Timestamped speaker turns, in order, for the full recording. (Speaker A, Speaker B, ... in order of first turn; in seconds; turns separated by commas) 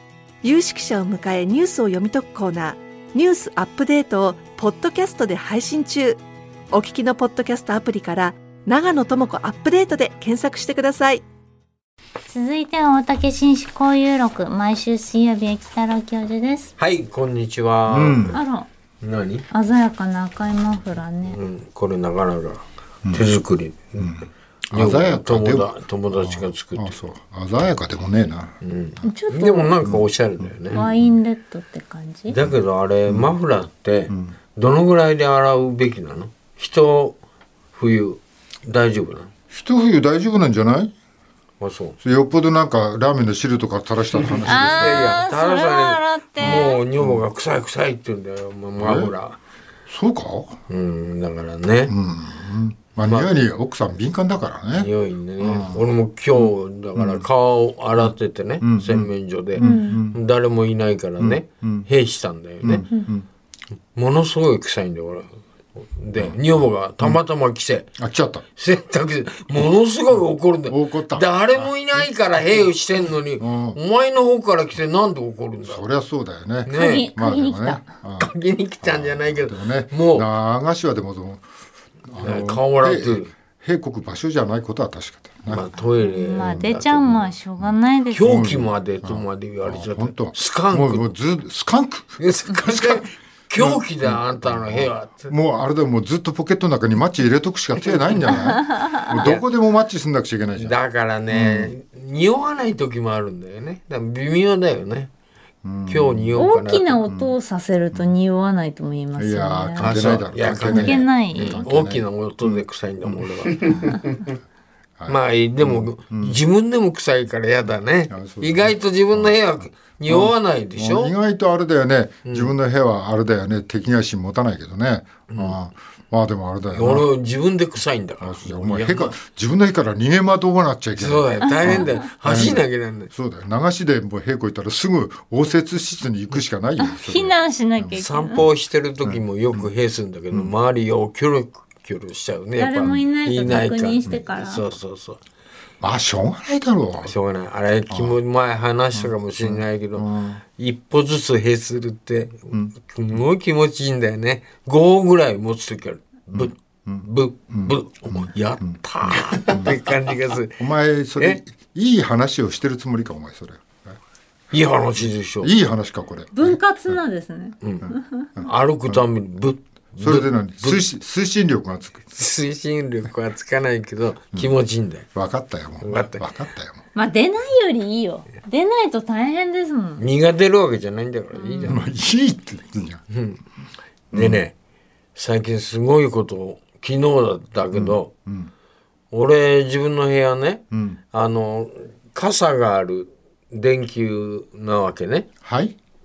Speaker A: 0.4-11.2, Speaker B: 12.3-16.7, Speaker C: 16.8-18.4, Speaker D: 17.9-18.4, Speaker B: 18.3-18.7, Speaker C: 19.0-19.4, Speaker B: 19.5-21.4, Speaker C: 21.2-24.1, Speaker D: 24.0-28.5, Speaker C: 24.7-26.9, Speaker C: 28.6-30.8, Speaker B: 29.0-29.7, Speaker D: 29.8-31.2, Speaker B: 30.7-32.4, Speaker C: 32.3-37.2, Speaker D: 33.1-33.3, Speaker C: 37.7-39.3, Speaker D: 39.5-40.9, Speaker C: 41.6-42.0, Speaker D: 42.0-45.2, Speaker C: 44.4-49.4, Speaker B: 44.4-46.8, Speaker D: 46.4-47.2, Speaker D: 48.8-49.1, Speaker D: 49.9-50.5, Speaker C: 50.7-51.9, Speaker D: 51.9-57.2, Speaker C: 54.7-62.9, Speaker D: 58.0-60.2, Speaker B: 59.6-60.0, Speaker D: 61.2-61.9, Speaker D: 62.6-63.2, Speaker C: 63.9-67.9, Speaker D: 68.0-68.4, Speaker C: 68.5-75.8, Speaker D: 70.7-72.1, Speaker D: 73.4-73.8, Speaker D: 75.6-81.4, Speaker C: 76.6-77.1, Speaker B: 76.7-77.8, Speaker C: 78.2-80.2, Speaker D: 82.0-85.7, Speaker C: 82.2-83.3, Speaker C: 85.5-87.4, Speaker B: 86.0-88.4, Speaker D: 86.4-86.8, Speaker D: 87.6-93.0, Speaker C: 88.1-91.1, Speaker C: 92.2-95.3, Speaker D: 93.6-100.8, Speaker B: 98.5-99.0, Speaker C: 99.1-99.4, Speaker C: 100.6-105.1, Speaker D: 101.3-101.7, Speaker D: 105.6-106.5, Speaker C: 105.8-107.0, Speaker B: 106.4-111.6, Speaker D: 107.0-107.4, Speaker D: 109.2-114.0, Speaker C: 109.8-114.1, Speaker D: 115.0-116.4, Speaker C: 115.1-121.1, Speaker D: 118.1-119.5, Speaker D: 120.0-127.1, Speaker C: 122.2-122.5, Speaker C: 125.3-125.6, Speaker C: 126.7-129.2, Speaker D: 128.2-138.5, Speaker C: 130.9-133.1, Speaker B: 131.4-132.0, Speaker B: 136.8-138.4, Speaker C: 137.9-145.2, Speaker D: 139.0-139.7, Speaker B: 142.6-144.6, Speaker D: 145.8-147.1, Speaker C: 147.0-161.4, Speaker D: 147.9-148.2, Speaker D: 148.9-150.4, Speaker D: 156.3-158.7, Speaker D: 159.3-159.8, Speaker D: 160.6-164.0, Speaker C: 164.5-165.5, Speaker D: 165.4-167.0, Speaker B: 166.3-168.2, Speaker C: 167.6-170.8, Speaker D: 168.4-169.0, Speaker D: 170.0-172.0, Speaker C: 172.1-175.1, Speaker D: 175.1-176.8, Speaker C: 175.8-176.3, Speaker B: 176.9-180.0, Speaker C: 180.0-181.8, Speaker B: 181.3-181.8, Speaker D: 181.6-183.0, Speaker C: 183.1-183.4, Speaker D: 184.1-184.4, Speaker C: 184.1-184.5, Speaker C: 185.1-188.1, Speaker D: 187.7-188.5, Speaker C: 189.1-195.3, Speaker D: 190.7-191.0, Speaker D: 195.4-195.7